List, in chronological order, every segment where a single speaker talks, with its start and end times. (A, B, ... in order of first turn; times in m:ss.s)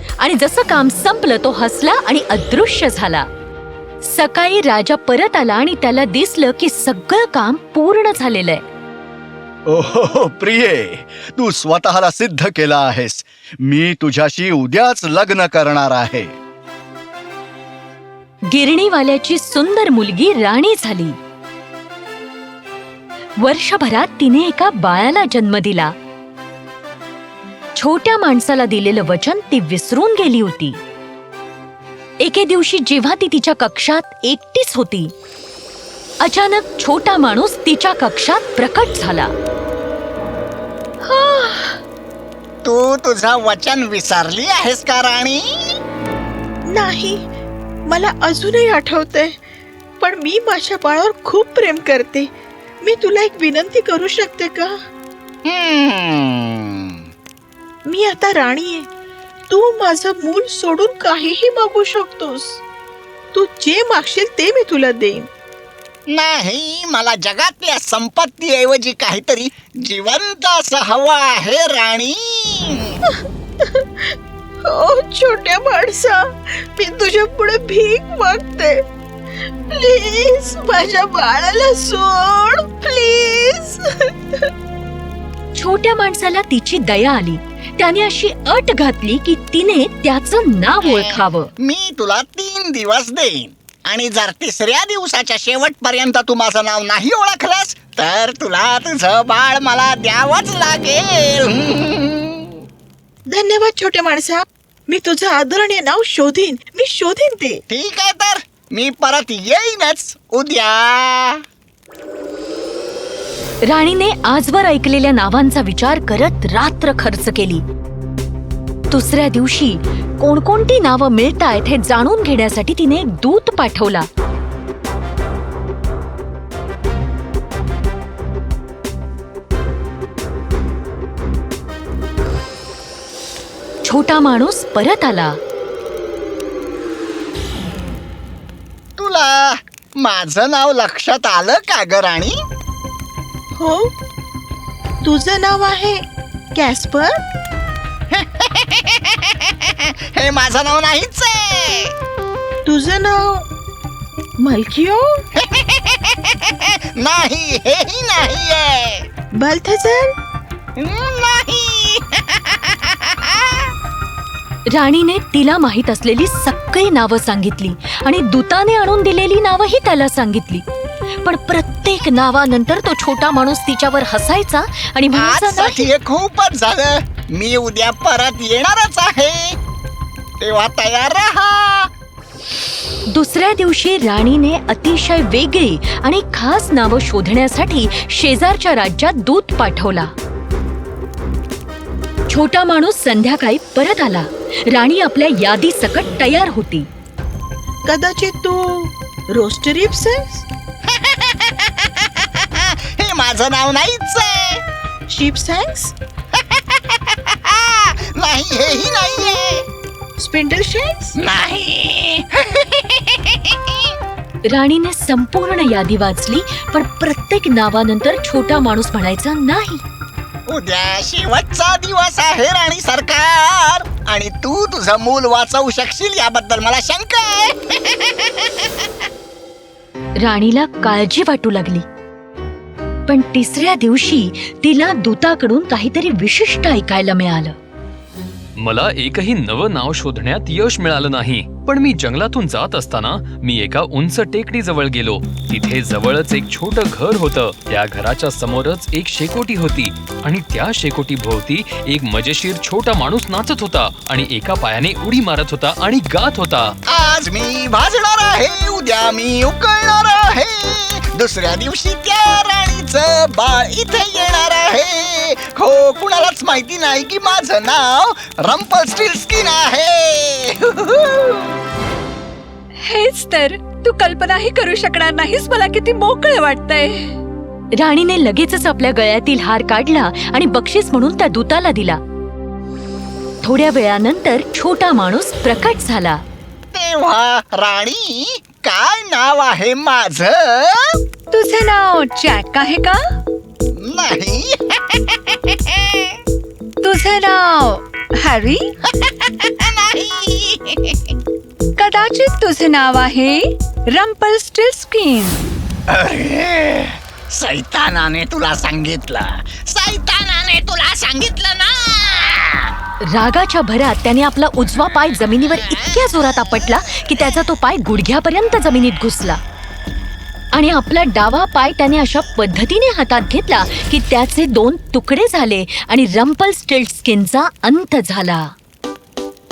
0:00.2-0:03.2 A
0:04.0-0:08.6 A
0:09.7-0:16.3 B
0:18.5-0:21.2 A
0:23.4-0:25.9 A
0:27.8-0:30.8 A
0:32.2-0:35.1 A
0:36.2-0:39.3 A
0:41.0-0:41.8 C
0:42.6-0:45.8 D
0:46.7-0:47.2 C
0:47.9-0:49.4 C
0:50.0-0:52.3 C
0:52.8-0:54.7 C
0:55.4-0:57.0 D
0:57.8-0:58.9 C
0:59.5-1:02.6 C
1:03.3-1:05.3 C
1:06.1-1:13.0 D
1:14.6-1:18.8 C
1:19.7-1:24.1 C
1:25.5-1:31.5 A
1:30.8-1:42.5 D
1:43.3-1:47.6 C
1:47.7-1:51.4 D
1:53.7-1:57.6 A
1:58.9-2:04.1 A
2:13.8-2:15.4 A
2:19.0-2:22.4 D
2:23.6-2:23.8 C
2:25.0-2:26.0 C
2:26.5-2:27.2 C
2:28.1-2:31.9 D
2:32.6-2:33.4 C
2:34.4-2:35.2 C
2:35.3-2:39.1 D
2:39.4-2:40.1 C
2:40.8-2:43.7 D
2:44.7-2:50.6 A
2:51.2-2:55.9 A
2:55.1-2:59.6 D
3:00.4-3:01.9 D
3:03.1-3:10.1 A
3:12.3-3:16.9 A
3:17.8-3:20.4 C
3:20.9-3:24.6 D
3:25.1-3:25.9 C
3:26.4-3:29.7 D
3:30.2-3:31.1 C
3:31.2-3:33.7 D
3:34.5-3:39.8 A
3:40.5-3:48.3 D
3:50.2-3:51.8 A
3:53.1-3:57.6 A
3:58.6-4:16.7 E
4:16.9-4:31.4 D
4:32.8-4:37.1 F
4:37.8-4:42.0 A
4:43.4-4:46.2 A
4:46.7-4:51.0 D
4:51.3-4:53.0 F
4:53.7-4:56.2 D
4:56.8-4:58.7 F
4:58.9-5:01.1 D
5:01.8-5:05.4 F
5:05.9-5:12.7 D
5:13.1-5:19.4 A
5:20.5-5:28.5 A